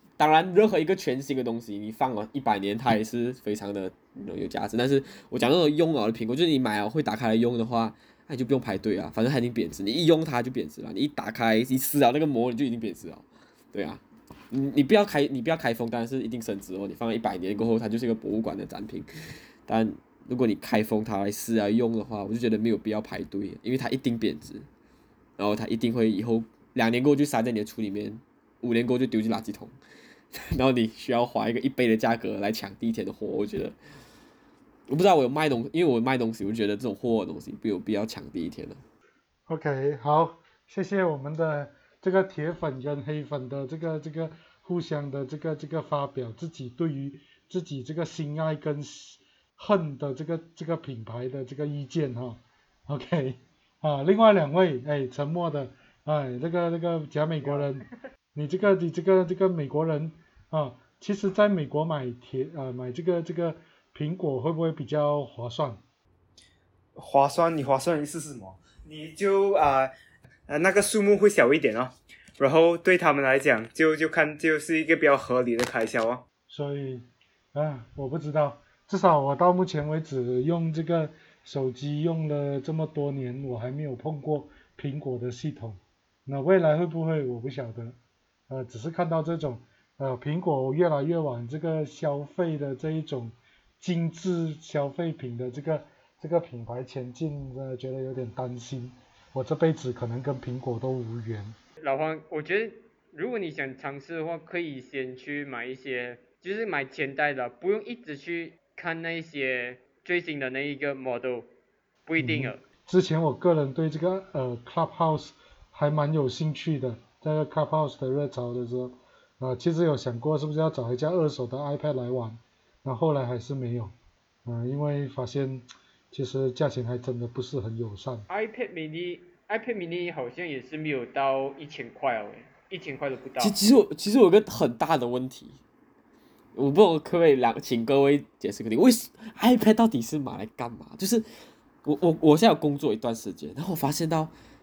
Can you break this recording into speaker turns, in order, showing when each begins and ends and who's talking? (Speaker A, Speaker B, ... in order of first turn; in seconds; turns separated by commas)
Speaker A: 0.2-19.1, Speaker A: 19.7-24.7, Speaker A: 25.4-29.8, Speaker A: 30.3-33.7, Speaker A: 34.9-38.8, Speaker B: 39.5-65.8, Speaker C: 67.0-69.9, Speaker C: 70.5-76.2, Speaker B: 76.5-88.0, Speaker B: 88.5-101.5, Speaker D: 101.8-111.5, Speaker D: 112.1-112.6, Speaker B: 112.2-123.9, Speaker B: 124.5-128.3, Speaker D: 128.3-133.6, Speaker A: 133.4-135.6, Speaker A: 136.6-141.3, Speaker A: 141.8-144.3